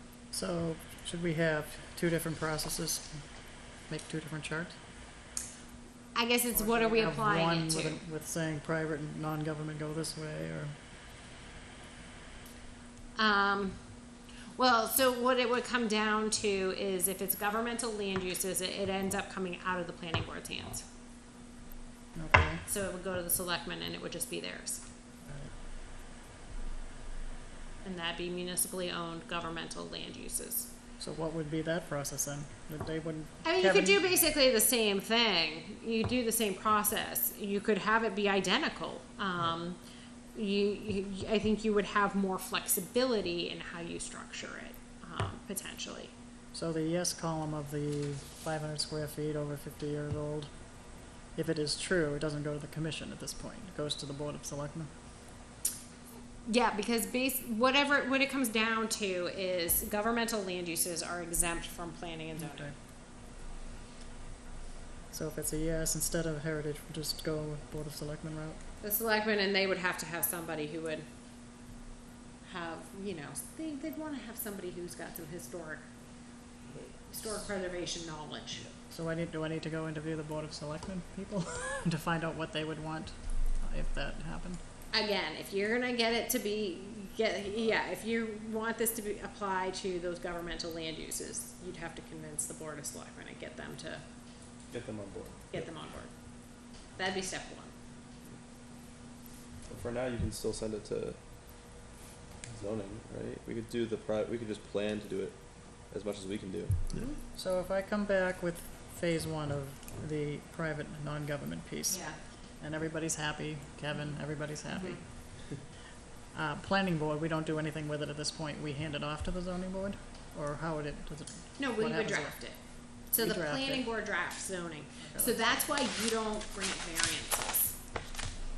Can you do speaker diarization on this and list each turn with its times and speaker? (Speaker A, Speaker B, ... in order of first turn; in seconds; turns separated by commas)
Speaker A: 0.3-3.2, Speaker A: 3.9-4.8, Speaker B: 6.1-8.0, Speaker A: 6.5-10.7, Speaker B: 13.2-13.8, Speaker B: 14.6-20.8, Speaker A: 22.2-22.6, Speaker B: 22.6-24.8, Speaker A: 25.2-25.5, Speaker B: 27.8-30.7, Speaker A: 31.0-34.0, Speaker B: 33.4-39.8, Speaker B: 40.3-46.1, Speaker A: 46.5-50.5, Speaker A: 51.3-54.9, Speaker B: 56.5-62.7, Speaker A: 62.4-62.7, Speaker A: 65.1-68.6, Speaker B: 68.8-71.1, Speaker B: 72.4-75.8, Speaker B: 77.1-78.6, Speaker A: 78.9-84.6, Speaker B: 84.9-94.0, Speaker C: 94.7-95.6, Speaker B: 95.5-96.1, Speaker B: 97.0-97.7, Speaker C: 99.7-101.2, Speaker C: 102.5-105.3, Speaker C: 105.9-106.8, Speaker A: 107.3-115.0, Speaker B: 111.9-112.2, Speaker B: 114.7-115.0, Speaker A: 116.3-122.3, Speaker B: 121.6-122.5, Speaker B: 123.1-127.8, Speaker A: 123.2-123.8, Speaker A: 125.0-125.4